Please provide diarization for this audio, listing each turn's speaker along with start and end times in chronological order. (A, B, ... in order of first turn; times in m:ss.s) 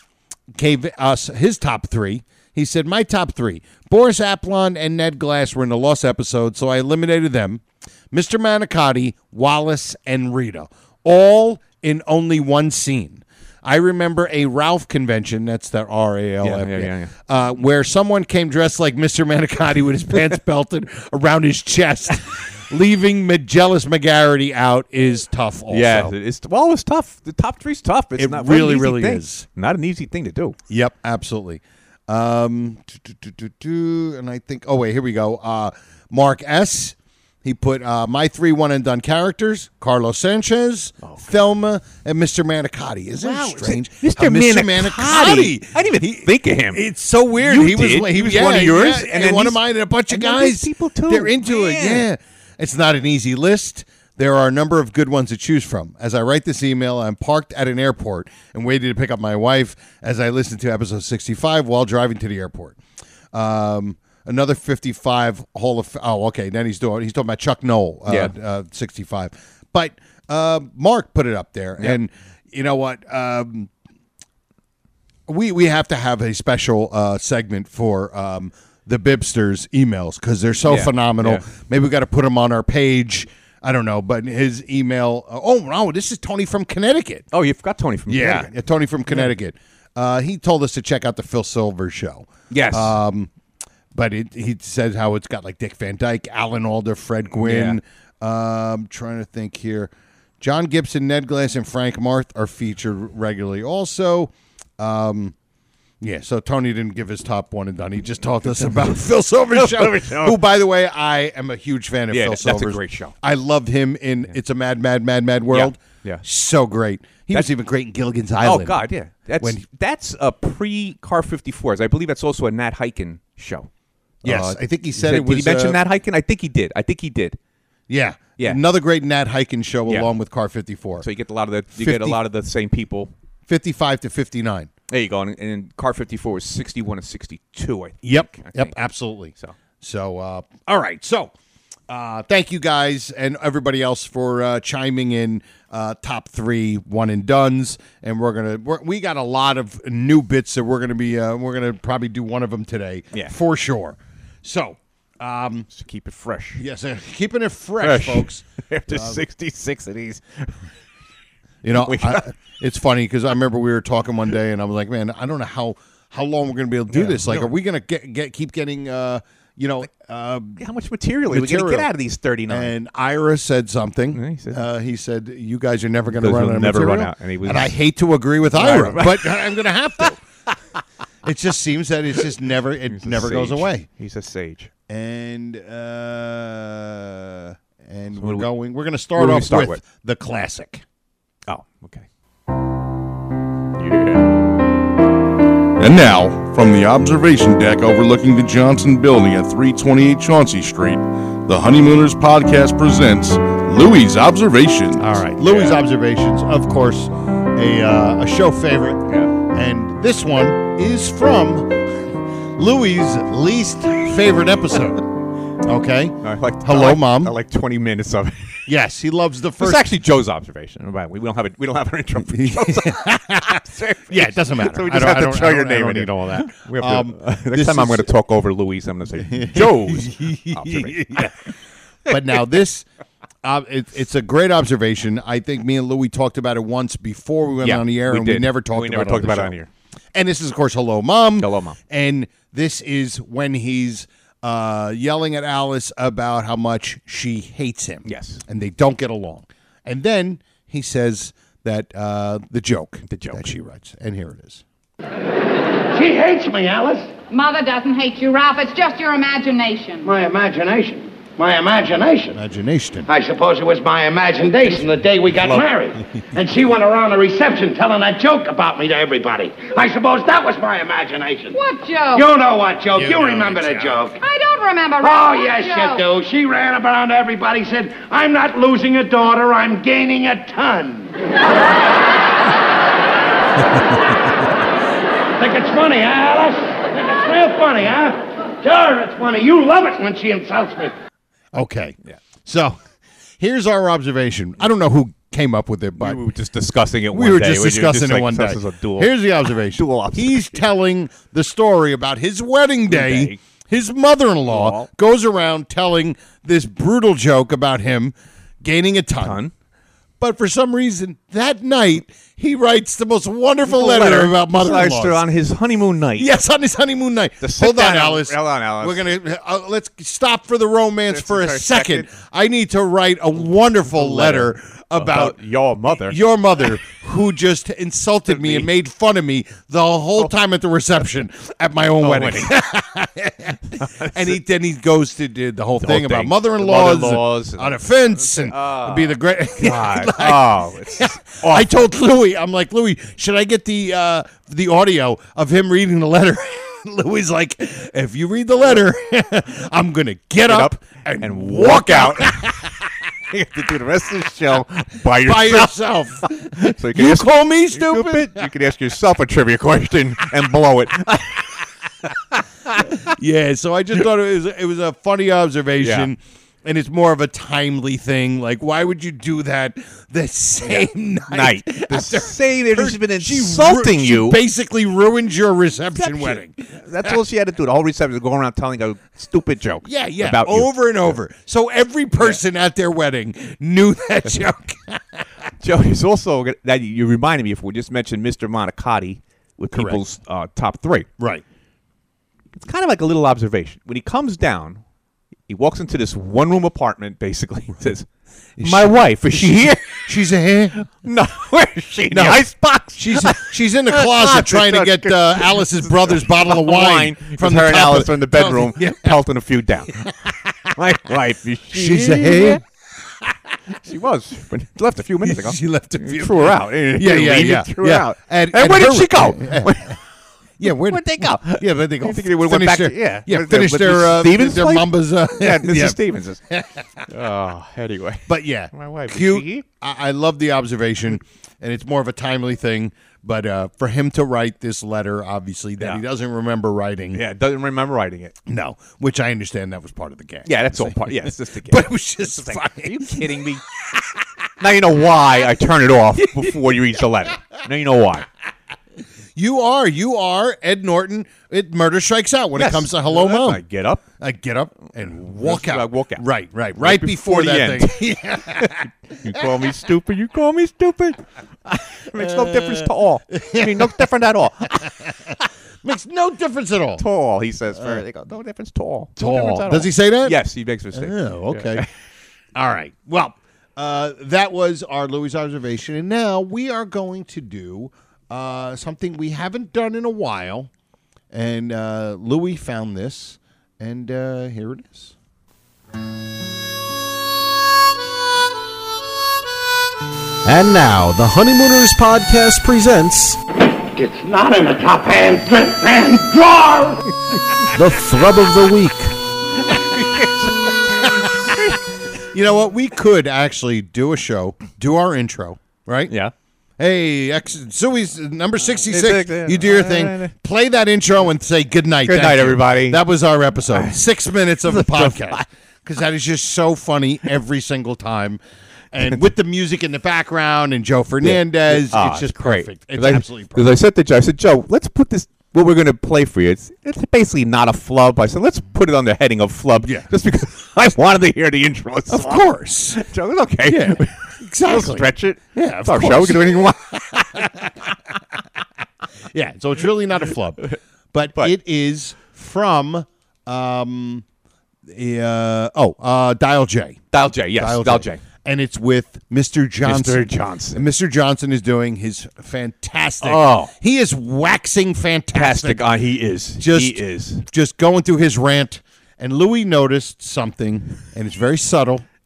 0:00.6-0:26.1 A
0:16.4-0:17.1 B
0:25.7-0:30.6 B
0:28.2-0:29.5 A
0:30.7-1:02.8 A
0:41.0-0:41.3 B
0:43.2-0:46.8 B
0:47.4-0:52.1 B
1:03.3-1:13.7 A
1:08.1-1:08.3 B
1:15.3-1:27.3 A
1:20.6-1:21.4 B
1:27.3-1:28.5 B
1:28.1-1:33.3 A
1:32.5-1:33.0 B
1:33.9-1:45.4 A
1:37.3-1:37.8 B
1:46.0-1:58.8 A
1:48.6-1:48.9 B
1:49.5-1:50.4 B
1:52.1-1:53.1 B
1:55.5-1:56.2 B
1:58.4-2:03.7 B
2:04.2-2:07.4 B
2:04.2-2:05.8 A
2:07.9-2:11.1 A
2:11.0-2:13.1 B
2:11.8-2:12.2 A
2:13.5-2:14.7 A
2:14.9-2:18.8 B
2:18.0-2:21.3 A
2:21.9-2:35.7 A
2:35.7-2:36.6 B
2:36.6-2:39.2 A
2:37.8-2:40.5 B
2:41.6-2:50.6 A
2:41.7-2:42.3 B
2:46.9-2:47.5 B
2:50.6-2:52.8 B
2:51.3-2:51.9 A
2:52.5-3:00.2 A
2:54.1-2:54.6 B
2:56.2-2:57.8 B
2:58.5-2:59.5 B
3:01.2-3:03.9 A
3:02.9-3:04.7 B
3:04.9-3:10.8 A
3:08.2-3:08.5 B
3:09.2-3:09.8 B
3:11.5-3:12.1 B
3:13.8-3:14.3 B
3:15.8-3:25.0 C
3:25.0-3:31.8 A
3:25.4-3:25.8 B
3:32.6-3:35.1 A
3:35.6-3:37.4 A
3:36.2-3:38.6 B
3:38.7-3:39.9 A
3:39.6-3:51.3 B
3:42.3-3:48.1 A
3:49.3-3:51.5 A
3:52.1-3:52.9 A
3:52.1-3:52.4 B
3:53.4-3:59.6 A
3:57.6-3:59.7 B
4:00.1-4:14.6 A
4:01.4-4:01.8 B
4:08.1-4:08.4 B
4:13.1-4:13.5 B
4:15.9-4:17.1 D
4:17.3-4:20.1 E
4:20.0-4:22.4 D
4:22.3-4:23.1 A
4:23.1-4:31.6 D
4:31.5-4:32.3 E
4:32.1-4:34.2 D
4:33.0-4:34.0 A
4:34.2-4:36.0 E
4:35.0-4:41.2 D
4:45.4-4:50.9 D
4:51.5-4:52.8 A
4:53.4-4:56.2 A
4:56.0-5:00.6 B
4:57.1-5:09.4 A
5:02.9-5:03.4 B
5:04.5-5:04.9 B
5:09.2-5:09.5 B
5:10.2-5:15.2 A
5:13.7-5:16.3 B
5:16.2-5:25.4 A
5:17.4-5:19.1 B
5:21.1-5:22.1 B
5:23.9-5:26.2 B
5:26.0-5:52.7 A
5:28.3-5:28.7 B
5:32.0-5:32.5 B
5:33.8-5:34.4 B
5:35.8-5:41.9 B
5:50.5-5:52.7 B
5:53.3-6:01.6 B
5:55.2-5:58.5 A
6:03.0-6:17.2 A
6:05.8-6:06.1 B
6:10.6-6:14.4 B
6:16.0-6:21.1 B
6:19.8-6:25.2 A
6:25.6-6:31.1 B
6:29.7-6:30.0 A
6:31.2-6:31.4 A
6:32.5-6:34.8 B
6:35.5-6:38.1 B
6:38.6-6:40.8 A
6:38.6-6:40.1 B
6:40.9-6:50.1 B
6:42.1-6:42.4 A
6:43.0-6:49.2 A
6:50.0-6:50.5 A
6:50.8-6:52.6 B
6:51.7-6:52.6 A
6:53.8-7:00.0 B
6:55.2-6:59.9 A
7:00.6-7:07.1 A
7:00.6-7:06.4 B
7:07.1-7:09.6 B
7:08.3-7:17.2 A
7:17.1-7:18.4 B
7:18.5-7:24.2 A
7:20.5-7:23.6 B
7:24.6-7:28.3 B
7:26.3-7:26.7 A
7:29.4-7:33.6 A
7:32.6-7:34.0 B
7:34.2-7:39.7 A
7:35.4-7:36.3 B
7:36.8-7:44.9 B
7:42.2-7:44.0 A
7:44.8-7:47.0 A
7:47.0-7:51.9 B
7:47.8-7:48.0 A
7:49.2-7:50.4 A
7:50.9-7:51.9 A
7:52.6-8:00.7 A
8:01.3-8:05.2 A
8:10.4-8:13.4 F
8:13.9-8:17.0 D
8:17.7-8:19.1 F
8:19.7-8:20.7 B
8:20.9-8:21.5 A
8:22.3-8:26.2 A
8:26.8-8:38.4 A
8:28.8-8:30.3 B
8:32.0-8:33.0 B
8:33.7-8:34.0 B
8:34.6-8:35.4 B
8:38.9-8:43.8 A
8:41.2-8:57.5 B
8:52.1-8:53.0 A
8:53.6-8:57.9 A
8:59.3-9:04.2 A
9:04.9-9:07.0 A
9:07.1-9:08.2 B
9:07.6-9:15.8 A
9:09.8-9:10.8 B
9:13.2-9:13.7 B
9:15.3-9:17.4 B
9:16.6-9:22.0 A